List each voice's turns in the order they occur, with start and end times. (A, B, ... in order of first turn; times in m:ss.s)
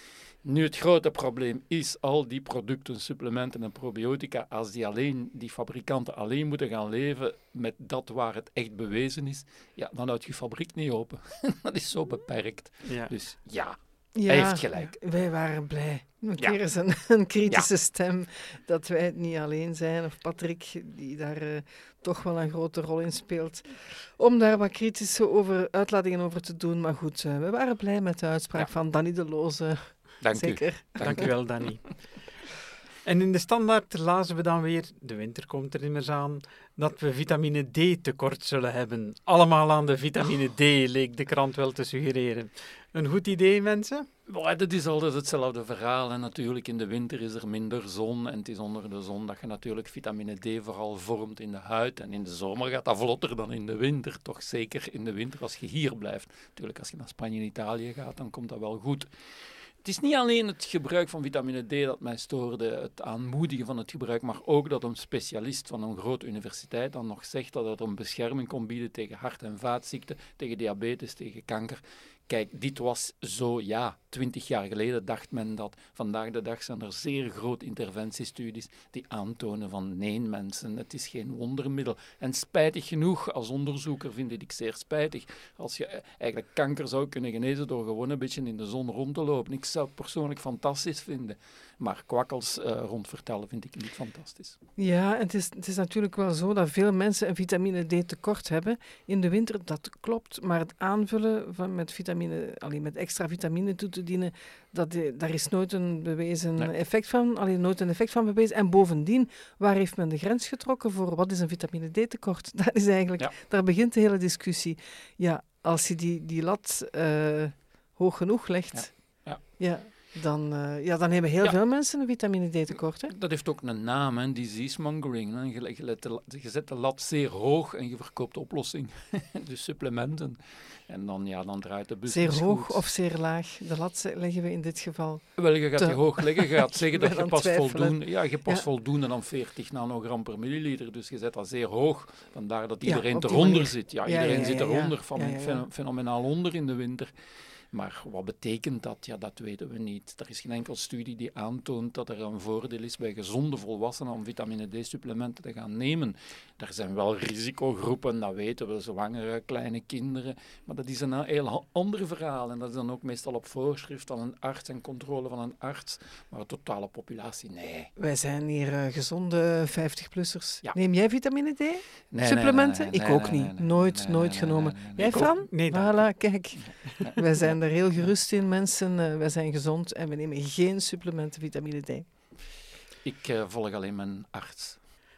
0:00.4-0:14.9 A
0:12.8-0:13.1 B
0:14.2-0:31.3 C
0:30.2-0:31.8 A
0:31.0-0:32.5 B
0:33.0-0:44.1 B
0:44.3-0:59.1 A
0:59.8-1:34.6 A
1:34.8-2:03.1 C
1:58.7-1:59.4 A
2:03.1-2:12.8 A
2:12.1-2:18.6 C
2:15.4-2:27.1 A
2:22.8-2:25.6 C
2:27.7-2:47.9 A
2:48.0-3:02.0 C
2:52.1-2:55.3 A
2:55.0-2:56.1 B
2:57.0-2:57.6 A
3:03.0-3:04.8 A